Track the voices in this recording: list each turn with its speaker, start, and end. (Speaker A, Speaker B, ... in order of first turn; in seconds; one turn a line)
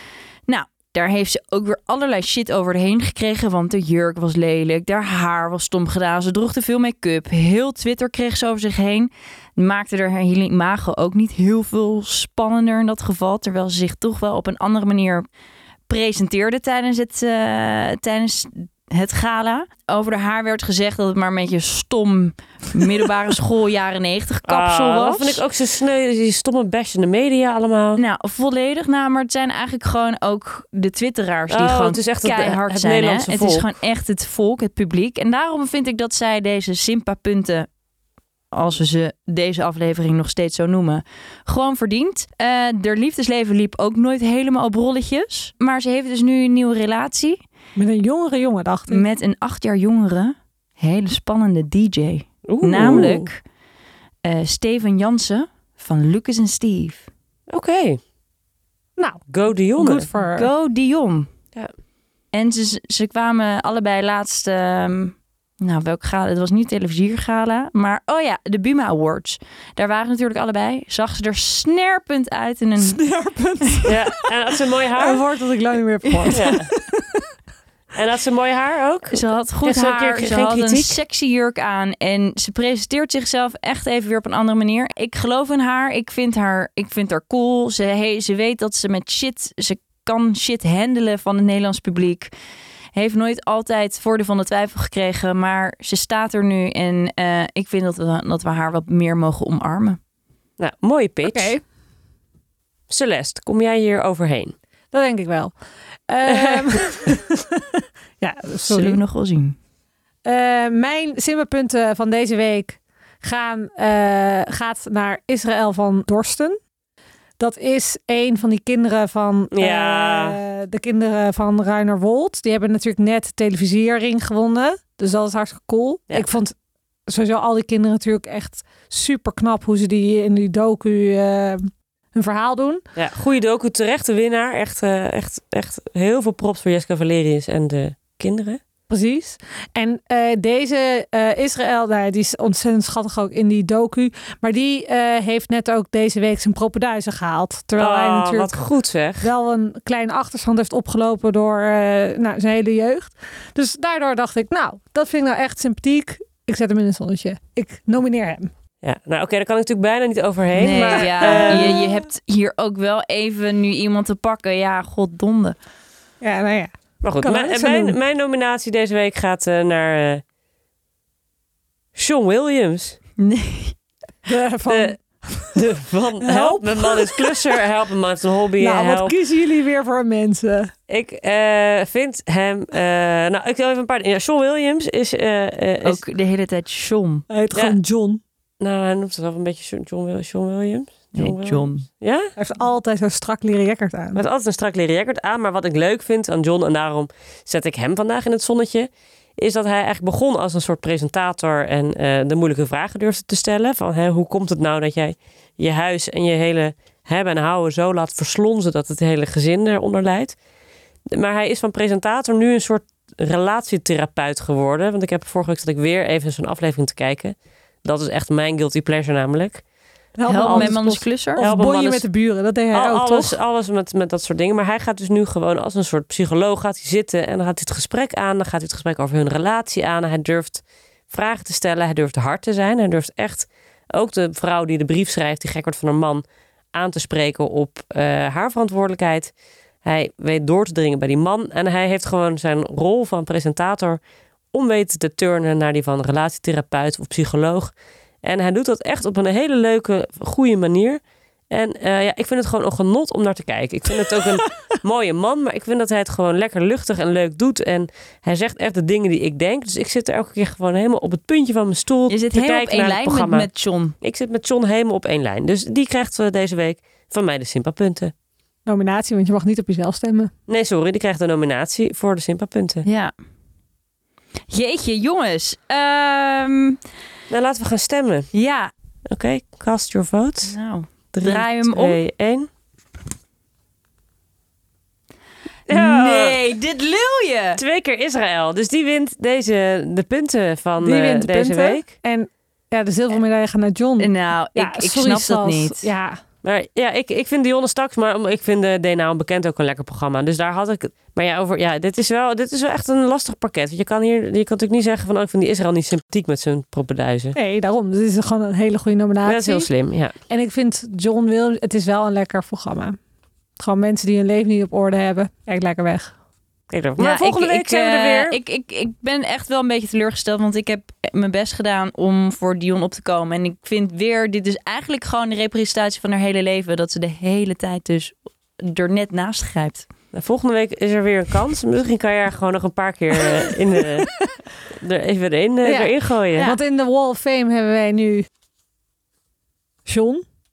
Speaker A: 0.5-15.2
Speaker A: 15.9-25.4
Speaker B: 24.5-28.0
Speaker A: 28.0-37.7
Speaker B: 31.5-33.7
Speaker A: 38.5-47.4
Speaker C: 47.8-49.0
Speaker A: 48.9-53.4
Speaker B: 52.5-53.3
Speaker A: 54.2-57.1
Speaker B: 57.5-58.0
Speaker C: 59.0-59.2
Speaker B: 59.3-60.1
Speaker C: 59.8-60.5
Speaker A: 60.3-61.3
Speaker A: 62.3-73.0
Speaker C: 72.8-74.3
Speaker B: 73.8-75.2
Speaker C: 75.0-77.2
Speaker A: 76.0-76.4
Speaker B: 76.3-76.7
Speaker B: 77.9-81.0
Speaker A: 79.1-92.3
Speaker A: 93.0-100.0
Speaker B: 100.6-101.6
Speaker C: 101.3-101.6
Speaker B: 102.9-104.5
Speaker C: 104.9-105.5
Speaker C: 106.1-109.0
Speaker B: 106.3-106.8
Speaker A: 108.6-109.6
Speaker C: 110.2-116.6
Speaker C: 117.4-126.5
Speaker B: 119.5-120.4
Speaker C: 127.1-132.8
Speaker B: 133.0-138.6
Speaker C: 138.9-148.6
Speaker B: 147.8-149.3
Speaker C: 149.2-158.5
Speaker B: 158.8-161.8
Speaker A: 160.6-165.6
Speaker C: 160.9-161.8
Speaker C: 166.2-167.9
Speaker B: 167.0-170.2
Speaker B: 171.9-173.0
Speaker A: 173.2-173.8
Speaker C: 174.3-175.7
Speaker B: 174.7-174.9
Speaker B: 175.5-179.2
Speaker C: 176.2-177.6
Speaker C: 178.6-180.7
Speaker B: 180.9-186.0
Speaker A: 185.8-187.3
Speaker C: 187.3-188.2
Speaker B: 188.6-192.3
Speaker A: 191.2-191.9
Speaker C: 192.4-194.2
Speaker B: 194.2-210.4
Speaker B: 211.1-219.6
Speaker C: 220.2-223.4
Speaker A: 220.3-221.5
Speaker B: 220.4-220.8
Speaker B: 221.4-222.1
Speaker B: 222.7-239.3
Speaker B: 239.8-244.0
Speaker B: 244.5-263.5
Speaker A: 262.1-264.0
Speaker B: 264.0-268.1
Speaker C: 268.7-270.3
Speaker B: 270.5-272.9
Speaker A: 272.9-273.1
Speaker A: 274.5-276.8
Speaker B: 277.3-278.3
Speaker A: 278.3-278.7
Speaker B: 279.1-280.6
Speaker A: 280.4-282.0
Speaker B: 281.1-282.5
Speaker B: 285.7-286.4
Speaker A: 285.7-287.6
Speaker B: 287.6-291.9
Speaker C: 290.8-296.2
Speaker A: 294.0-295.9
Speaker B: 296.4-307.4
Speaker C: 307.4-309.7
Speaker B: 309.2-310.1
Speaker C: 310.3-313.0
Speaker C: 313.6-316.1
Speaker B: 316.7-318.4
Speaker A: 317.0-329.9
Speaker B: 330.1-334.1
Speaker B: 334.7-336.6
Speaker C: 335.6-338.3
Speaker C: 339.9-340.2